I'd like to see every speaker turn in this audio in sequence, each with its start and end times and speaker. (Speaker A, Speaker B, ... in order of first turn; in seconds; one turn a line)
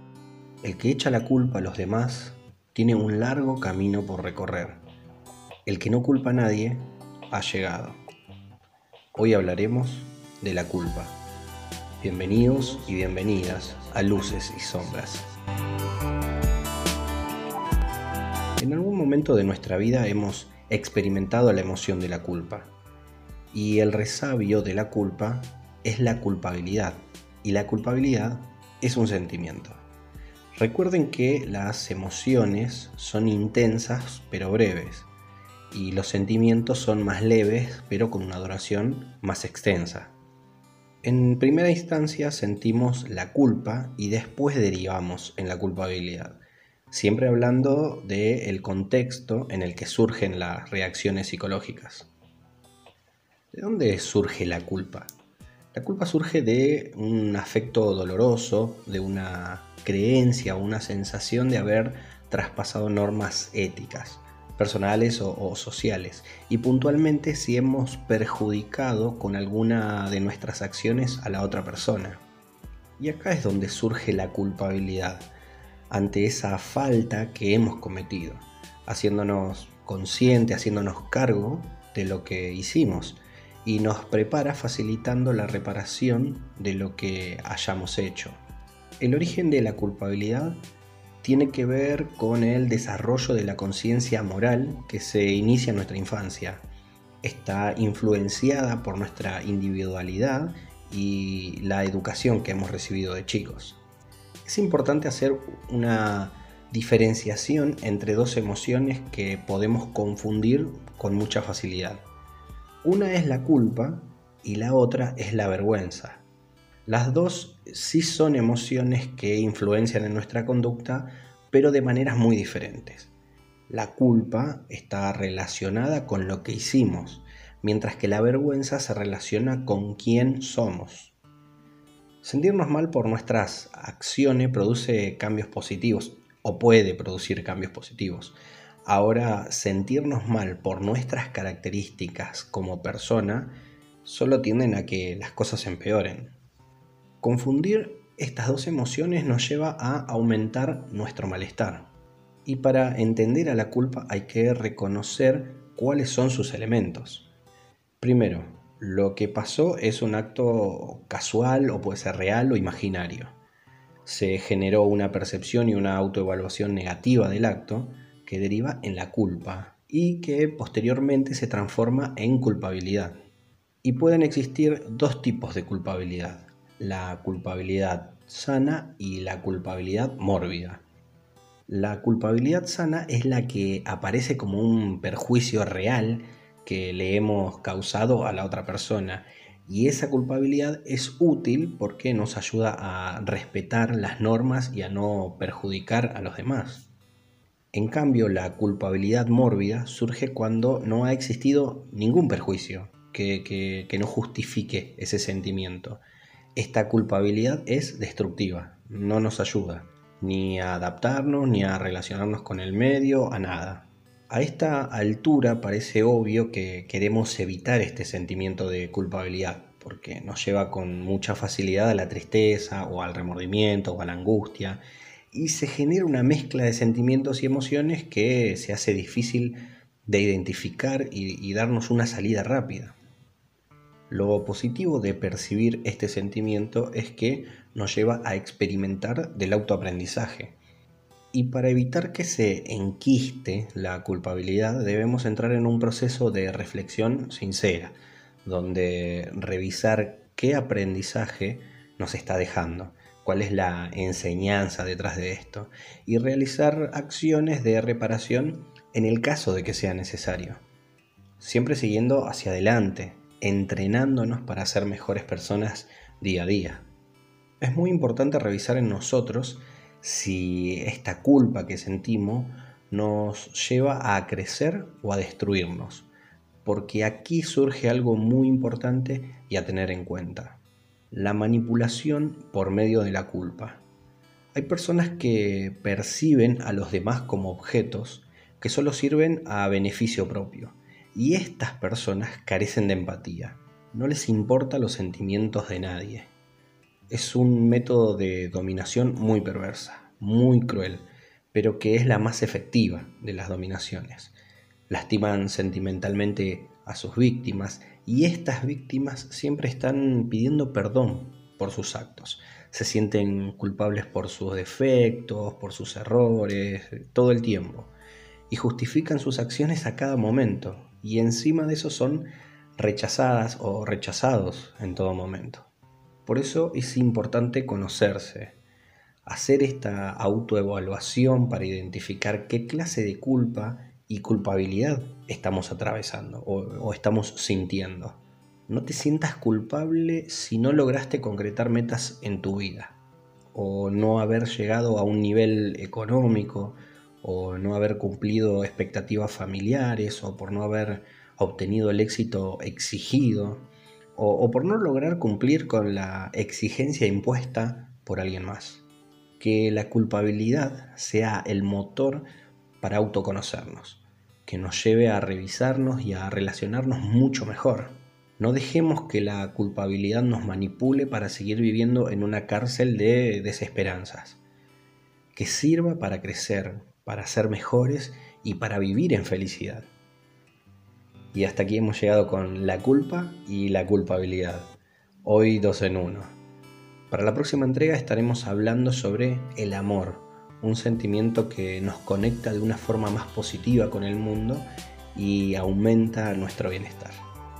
Speaker A: 0.6-4.8
Speaker A: 5.7-8.0
Speaker A: 9.1-11.2
Speaker A: 12.0-15.3
Speaker A: 18.6-22.7
Speaker A: 23.5-29.8
Speaker A: 30.5-35.1
Speaker A: 35.7-40.1
Speaker A: 41.0-52.1
Speaker A: 53.5-55.1
Speaker A: 55.7-72.2
Speaker A: 73.0-75.3
Speaker A: 75.9-88.4
Speaker A: 89.0-90.6
Speaker A: 91.2-96.7
Speaker A: 97.2-103.8
Speaker A: 104.4-112.0
Speaker A: 112.8-116.2
Speaker A: 116.8-123.1
Speaker A: 123.7-131.1
Speaker A: 132.2-146.3
Speaker A: 147.2-151.9
Speaker A: 152.4-157.3
Speaker A: 158.0-163.4
Speaker A: 164.0-173.2
Speaker A: 173.8-180.8
Speaker A: 181.7-196.9
Speaker A: 197.7-206.0
Speaker A: 206.5-233.0
Speaker A: 234.1-240.6
Speaker A: 241.3-260.6
Speaker A: 261.4-266.9
Speaker A: 267.6-276.1
Speaker A: 276.6-280.6
Speaker A: 281.1-283.8
Speaker A: 284.5-296.3
Speaker A: 297.1-304.3
Speaker A: 304.9-317.9
Speaker A: 318.5-325.7
Speaker A: 326.2-328.6
Speaker A: 329.2-343.0
Speaker A: 343.5-358.8
Speaker A: 359.4-362.2
Speaker A: 362.8-374.4
Speaker A: 375.3-379.9
Speaker A: 381.3-386.4
Speaker A: 387.1-397.2